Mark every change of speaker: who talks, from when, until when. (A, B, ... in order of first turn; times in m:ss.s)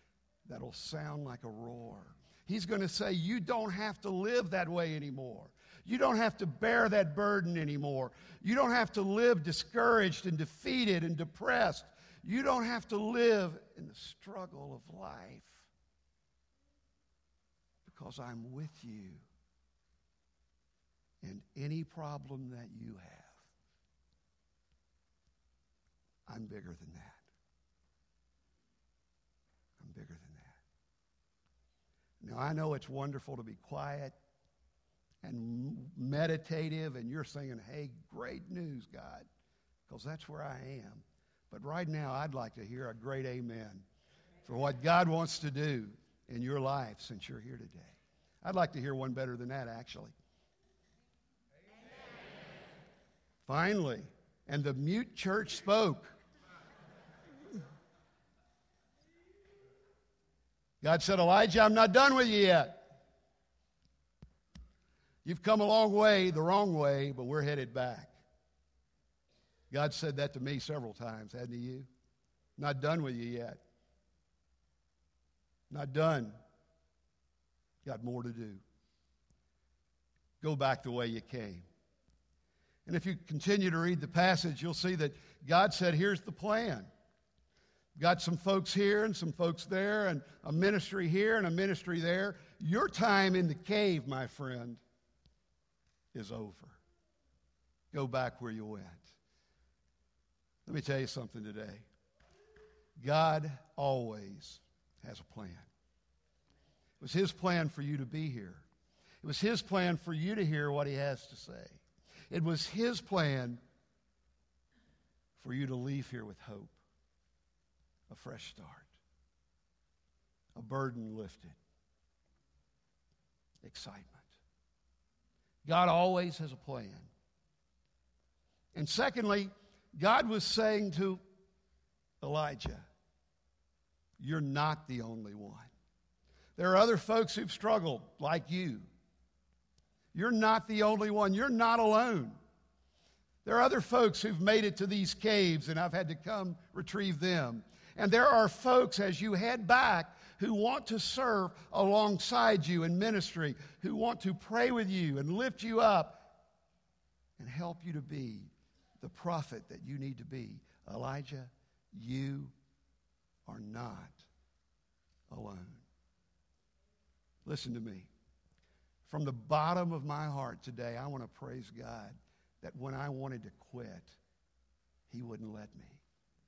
0:00.4-0:15.7 A
0:17.8-0:19.2 A
0:21.2-0:23.5 A
0:26.3-0:27.2 A
0:29.8-0:30.6 A
0:32.2-0:34.1 A
0:35.2-0:39.2 A
0:39.9-0:43.8 A
0:44.4-0:50.1 A
0:53.4-0:56.1 A
1:00.8-1:02.9 A
1:05.2-1:08.1 A
1:09.7-1:11.9 A
1:12.6-1:13.6 A
1:15.7-1:16.3 A
1:17.8-1:18.6 A
1:20.4-1:21.6 A
1:22.8-1:26.9 A
1:28.0-1:34.8 A
1:36.1-1:36.8 A
1:37.9-1:39.1 A
1:40.6-1:41.9 A
1:43.0-1:45.7 A
1:47.0-1:48.6 A
1:49.2-1:53.6 A
1:55.4-1:56.8 A
1:58.1-1:59.0 A
2:00.5-2:01.6 A
2:03.6-2:04.3 A
2:05.6-2:07.1 A
2:08.7-2:11.2 A
2:12.2-2:12.9 A
2:14.2-2:15.7 A
2:16.6-2:18.9 A
2:20.1-2:22.4 A
2:23.4-2:36.3 A
2:37.4-2:42.5 A
2:43.4-2:44.3 A
2:45.3-2:45.8 A
2:47.4-2:48.1 A
2:49.0-2:54.2 A
2:55.1-2:56.0 A